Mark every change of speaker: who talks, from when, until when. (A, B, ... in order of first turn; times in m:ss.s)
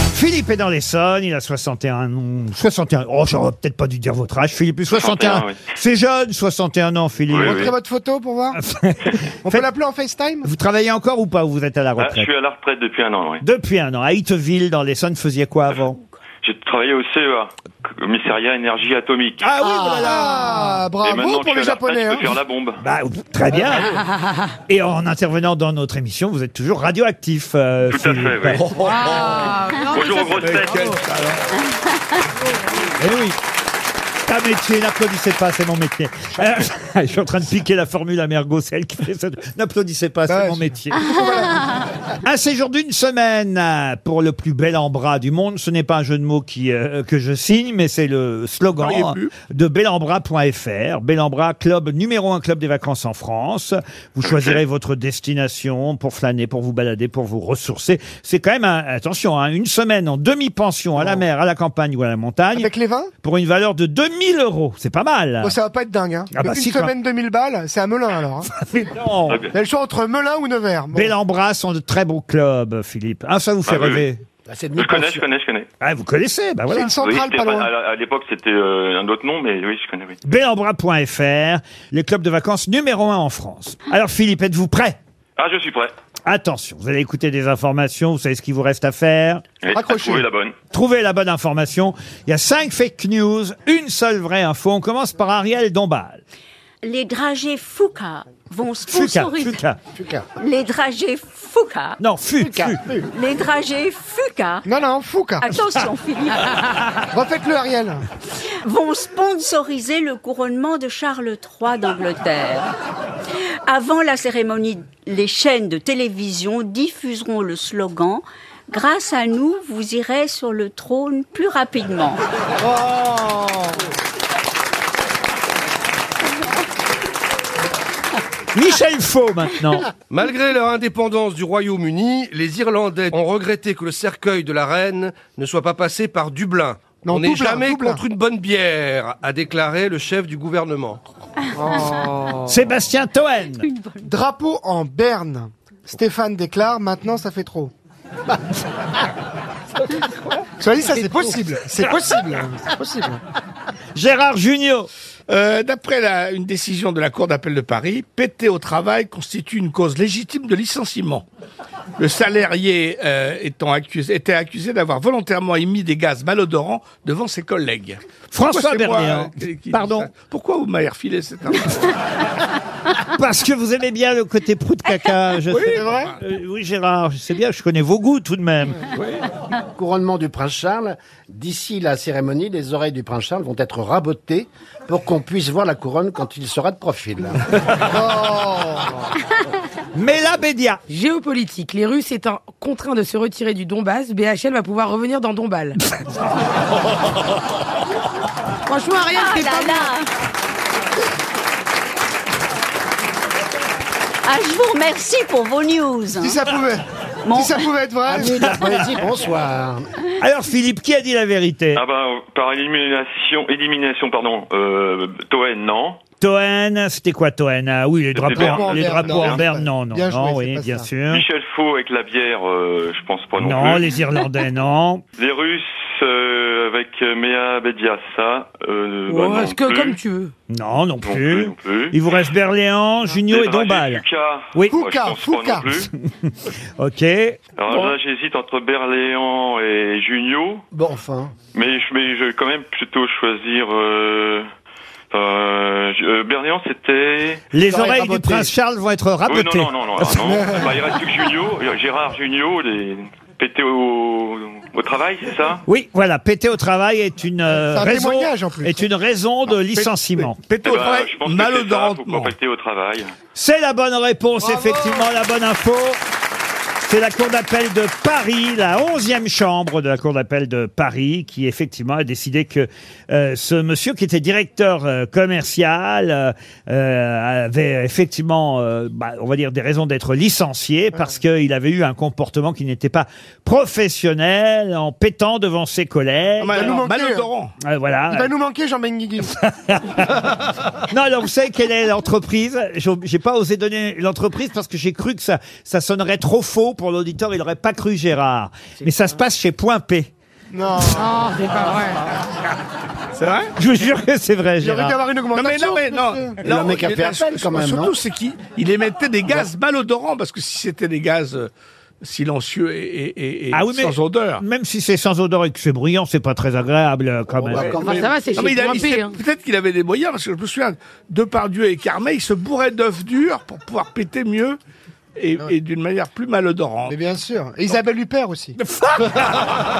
0:00.1-0:07.7 A
0:04.9-0:05.6 B
0:07.3-0:07.8 B
0:07.4-0:08.6 C
0:08.5-0:09.7 A
0:09.4-0:10.5 C
0:10.4-0:12.3 A
0:12.0-0:13.4 B
0:13.4-0:16.0 A
0:16.4-0:19.5 B
0:19.4-0:20.6 A
0:19.8-0:22.4 C
0:21.0-0:22.8 B
0:22.8-0:24.0 A
0:24.7-0:28.7 A
0:27.9-0:28.6 B
0:28.5-0:29.6 D
0:28.8-0:31.0 E
0:29.9-0:30.9 B
0:30.3-0:31.5 D
0:33.0-0:33.4 A
0:34.3-0:41.1 A
0:40.3-0:41.9 C
0:42.2-1:05.6 A
0:48.8-0:49.3 D
1:02.5-1:03.1 C
1:05.4-1:08.5 C
1:06.3-1:06.9 A
1:08.4-1:09.5 A
1:09.5-1:11.2 C
1:10.9-1:14.2 A
1:13.6-1:14.1 B
1:14.5-1:15.2 F
1:14.8-1:15.7 B
1:15.8-1:17.0 A
1:16.7-1:17.7 C
1:17.0-1:20.2 B
1:20.3-1:25.0 A
1:25.4-1:25.9 B
1:26.3-1:29.4 A
1:29.6-1:30.6 B
1:29.7-1:30.3 C
1:30.7-1:36.2 A
1:36.8-1:39.6 G
1:38.9-1:39.8 A
1:40.0-1:40.2 F
1:40.4-1:44.7 G
1:42.0-1:42.8 A
1:44.7-1:45.5 C
1:45.4-1:46.5 G
1:47.1-1:48.0 C
1:48.6-1:52.7 G
1:53.7-2:02.2 G
2:08.6-2:09.9 A
2:10.1-2:21.0 H
2:17.0-2:18.0 C
2:21.6-2:22.4 C
2:22.4-2:23.7 A
2:23.6-2:24.0 G
2:24.0-2:27.7 C
2:30.6-2:33.2 C
2:33.9-2:34.9 A
2:35.3-2:41.2 D
2:42.0-2:51.9 D
2:48.3-2:50.1 A
2:53.0-2:58.9 A
2:55.5-2:56.2 D
2:55.7-2:56.1 C
2:58.9-2:59.3 D
2:59.8-3:07.4 F
3:07.8-3:08.9 C
3:10.0-3:10.8 A
3:10.9-3:15.8 E
3:18.7-3:19.9 E
3:19.0-3:20.1 G
3:24.2-3:26.4 G
3:26.1-3:28.4 C
3:27.2-3:27.7 G
3:28.1-3:29.8 F
3:28.3-3:28.8 A
3:30.2-3:31.8 A
3:31.8-3:36.0 B
3:36.2-3:41.2 A
3:38.2-3:39.4 B
3:38.3-3:40.9 C
3:41.1-3:44.0 B
3:43.4-3:45.0 A
3:45.2-3:50.0 B
3:49.1-3:50.3 E
3:50.5-3:54.0 A
3:51.0-3:52.0 B
3:53.3-3:55.9 B
3:54.7-3:55.7 C
3:55.7-3:57.4 A
3:57.6-4:00.6 B
4:00.7-4:01.3 F
4:01.5-4:04.5 B
4:05.1-4:07.4 B
4:07.5-4:10.3 A
4:07.6-4:08.5 C
4:09.2-4:15.6 B
4:10.3-4:10.7 C
4:15.7-4:20.5 A
4:17.5-4:18.9 C
4:19.8-4:22.3 D
4:20.6-4:23.1 B
4:23.3-4:26.0 A
4:24.4-4:25.1 C
4:26.8-4:46.6 A
4:46.4-4:47.5 D
4:46.5-4:47.3 C
4:47.6-4:48.4 A
4:48.1-4:49.3 C
4:49.2-5:00.1 A
5:00.5-5:01.2 C
5:00.9-5:02.2 E
5:03.2-5:03.5 D
5:03.6-5:05.0 A
5:04.6-5:06.4 C
5:05.3-5:11.5 D
5:06.4-5:07.9 F
5:12.0-5:14.4 D
5:13.5-5:17.9 A
5:17.4-5:18.1 F
5:17.5-5:24.6 D
5:17.7-5:19.2 E
5:25.2-5:27.0 D
5:26.9-5:28.6 C
5:28.7-5:29.2 A